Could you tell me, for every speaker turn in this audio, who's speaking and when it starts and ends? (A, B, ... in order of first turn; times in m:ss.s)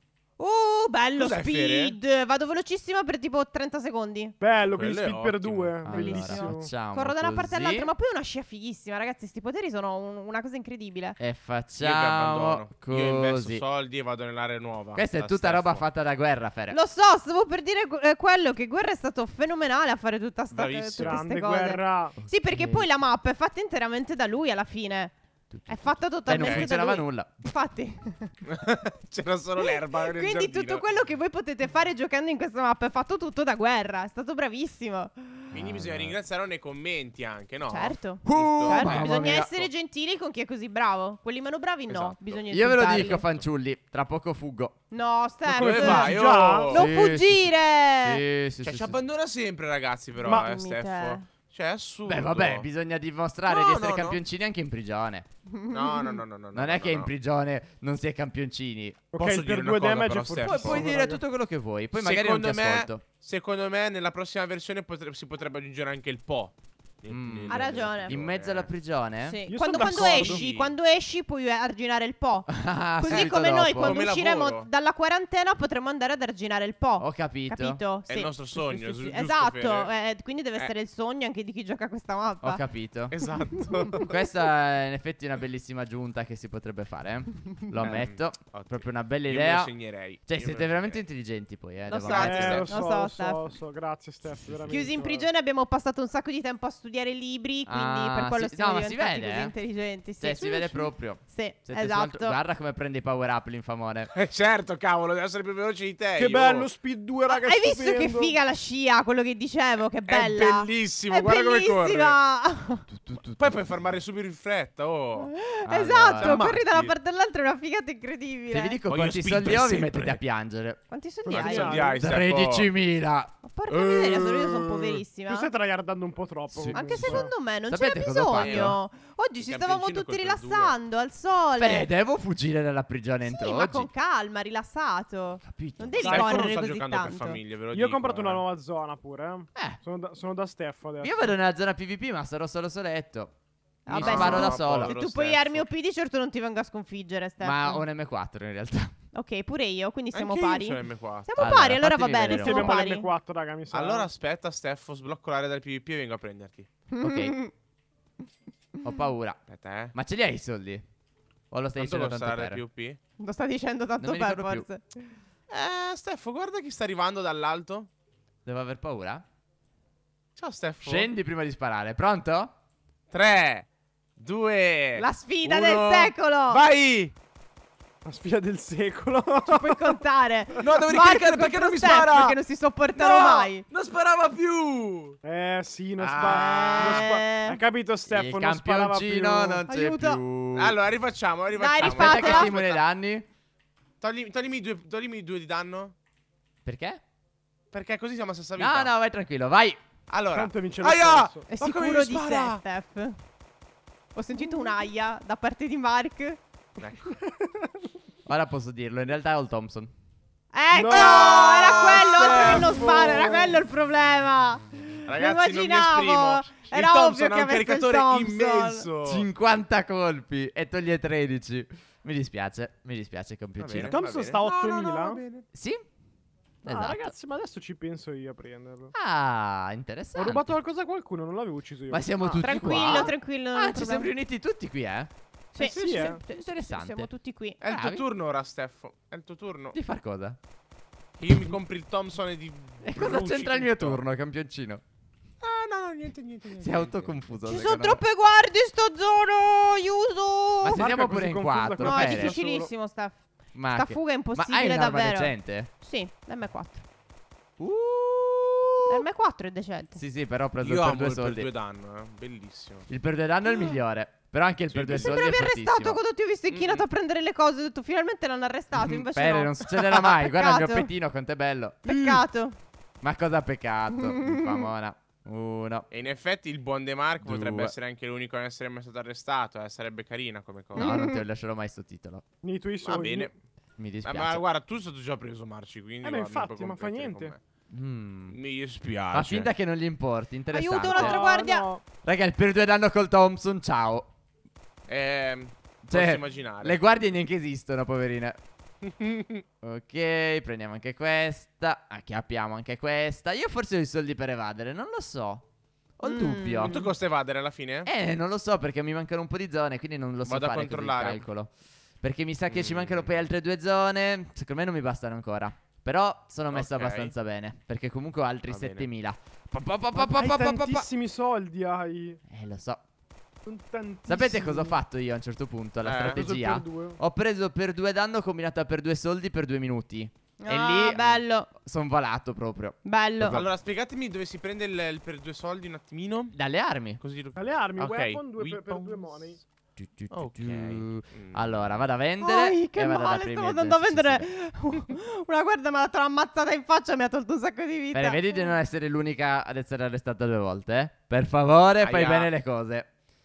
0:00.4-0:04.4 A
0:01.2-0:02.0 B
0:04.4-0:06.7 C
0:04.7-0:05.8 B
0:05.8-0:07.9 D
0:05.9-0:11.2 A
0:11.2-0:13.6 D
0:11.8-0:15.8 B
0:15.0-0:16.8 D
0:16.7-0:25.1 A
0:20.5-0:21.2 B
0:21.0-0:22.2 C
0:22.2-0:22.9 D
0:25.5-0:27.5 D
0:25.7-0:28.3 A
0:26.3-0:26.7 B
0:28.5-0:30.8 B
0:29.6-0:35.5 A
0:35.5-0:36.2 D
0:35.5-0:39.4 B
0:37.7-0:43.2 A
0:38.2-0:39.7 D
0:41.9-0:42.4 B
0:42.5-0:44.8 D
0:43.0-0:43.4 B
0:44.9-0:48.2 A
0:45.5-0:46.8 C
0:45.6-0:46.8 B
0:46.7-0:47.5 D
0:48.0-0:49.0 D
0:48.6-0:52.7 B
0:50.2-0:51.2 A
0:52.1-0:55.3 D
0:53.5-0:54.2 B
0:55.5-0:56.2 A
0:55.7-0:57.1 B
0:56.5-0:59.1 D
0:59.1-1:01.2 C
0:59.2-1:00.9 B
1:00.4-1:03.0 D
1:02.0-1:08.7 B
1:07.1-1:09.4 D
1:07.5-1:08.2 A
1:09.2-1:22.6 A
1:09.5-1:10.4 C
1:09.7-1:10.7 B
1:12.5-1:14.0 D
1:13.1-1:14.7 B
1:17.0-1:17.8 D
1:18.1-1:19.9 B
1:22.4-1:23.1 D
1:23.1-1:24.2 B
1:24.0-1:32.6 D
1:27.8-1:31.0 B
1:31.9-1:33.5 A
1:32.0-1:32.7 B
1:32.2-1:35.3 C
1:34.7-1:42.4 A
1:37.7-1:39.5 D
1:40.2-1:44.1 D
1:44.1-1:46.7 B
1:46.2-1:48.4 C
1:47.3-1:52.9 A
1:50.1-1:52.2 B
1:52.9-1:53.6 D
1:53.4-1:55.3 B
1:55.2-1:58.8 A
1:55.6-1:56.4 D
1:56.2-1:56.9 B
1:58.5-2:00.8 D
1:58.9-2:00.2 B
2:00.9-2:01.9 A
2:01.2-2:02.0 C
2:01.3-2:02.7 B
2:02.0-2:03.3 D
2:03.4-2:05.5 A
2:03.9-2:04.7 B
2:05.3-2:07.3 C
2:06.5-2:08.8 D
2:06.8-2:11.9 A
2:08.4-2:08.8 B
2:09.4-2:10.8 B
2:11.6-2:13.9 D
2:13.3-2:17.4 A
2:15.4-2:16.2 D
2:16.0-2:18.4 B
2:16.0-2:16.5 C
2:17.7-2:21.4 C
2:21.0-2:23.3 D
2:23.9-2:25.0 D
2:23.9-2:27.8 A
2:23.9-2:25.6 B
2:27.4-2:28.9 D
2:29.1-2:33.1 A
2:30.1-2:31.3 B
2:31.4-2:32.7 D
2:32.3-2:34.1 C
2:33.7-2:36.7 B
2:36.9-2:37.5 A
2:37.0-2:37.4 D
2:38.8-2:39.4 D
2:39.5-2:39.9 B
2:39.9-2:40.8 D
2:41.5-2:42.6 D
2:41.8-2:43.0 B
2:43.2-2:45.1 A
2:44.0-2:44.7 D
2:45.5-2:47.9 B
2:48.5-2:49.2 D
2:50.4-2:51.1 B
2:50.8-2:52.5 D
2:53.1-2:57.1 B
2:55.0-2:56.6 A
2:58.0-3:00.0 C
2:59.5-3:03.6 A
3:00.6-3:02.4 B
3:03.0-3:05.2 B
3:05.2-3:09.6 C
3:06.0-3:07.1 B
3:06.2-3:07.6 A
3:08.1-3:10.8 D
3:09.7-3:10.2 A
3:10.6-3:12.8 B
3:11.6-3:12.5 A
3:11.8-3:13.2 D
3:14.0-3:16.0 B
3:16.6-3:17.0 D
3:17.7-3:18.9 B
3:18.6-3:19.8 D
3:20.1-3:22.6 B
3:20.3-3:21.4 C
3:21.5-3:23.2 A
3:24.2-3:26.4 A
3:26.8-3:27.2 B
3:27.1-3:27.7 C
3:28.3-3:29.9 D
3:30.5-3:38.8 A
3:30.7-3:33.6 C
3:30.8-3:33.1 B
3:35.1-3:39.3 B
3:39.0-3:44.0 D
3:43.6-3:45.5 B
3:43.7-3:45.2 C
3:45.5-3:45.8 D
3:46.6-3:47.1 D
3:46.6-3:48.9 C
3:49.0-3:50.5 D
3:50.2-3:53.1 C
3:51.9-3:55.1 D
3:52.4-3:54.1 A
3:55.5-3:57.6 A
3:55.6-3:56.2 C
3:56.1-3:57.1 D
3:57.6-3:59.8 B
3:57.6-3:58.0 D
3:59.7-4:00.4 D
4:01.2-4:04.0 B
4:02.8-4:04.8 D
4:05.4-4:07.2 B
4:06.6-4:08.0 D
4:07.4-4:10.9 A
4:10.6-4:12.3 D
4:10.8-4:12.7 C
4:11.8-4:16.8 A
4:13.6-4:15.7 D
4:17.6-4:19.0 D
4:18.9-4:20.0 A
4:20.0-4:21.5 D
4:20.6-4:22.9 B
4:22.9-4:26.0 D
4:24.7-4:25.2 B
4:24.9-4:30.9 A
4:26.5-4:26.9 B
4:28.7-4:32.2 D
4:31.8-4:32.6 A
4:33.0-4:35.9 D
4:34.0-4:34.6 A
4:35.9-4:41.0 B
4:37.2-4:37.7 D
4:40.8-4:41.2 A
4:40.8-4:42.2 D
4:42.4-4:43.3 C
4:42.8-4:43.3 B
4:43.8-4:44.4 D
4:44.0-4:47.4 B
4:46.0-4:47.3 C
4:47.7-4:48.4 D
4:48.3-4:49.5 B
4:49.1-4:51.2 D
4:50.5-4:51.7 A
4:50.9-4:51.8 C
4:52.0-4:54.1 D
4:54.9-4:56.8 B
4:55.9-4:58.4 D
4:58.8-4:59.4 B
4:59.6-5:05.4 D
5:06.0-5:06.8 D
5:06.0-5:06.9 A
5:06.6-5:07.9 B
5:07.9-5:20.9 D
5:10.2-5:11.2 B
5:12.5-5:13.1 B
5:16.5-5:17.1 B
5:18.5-5:18.9 B
5:20.0-5:22.2 C
5:22.3-5:22.8 D
5:23.4-5:24.8 C
5:24.1-5:33.5 D
5:25.8-5:26.2 B
5:26.1-5:27.0 C
5:30.4-5:31.5 A
5:32.8-5:33.4 A
5:33.2-5:36.4 B
5:36.3-5:37.0 D
5:37.0-5:39.4 B
5:37.4-5:39.4 C
5:39.8-5:44.3 D
5:40.1-5:41.4 B
5:42.2-5:48.5 A
5:47.9-5:52.9 D
5:51.8-5:52.3 B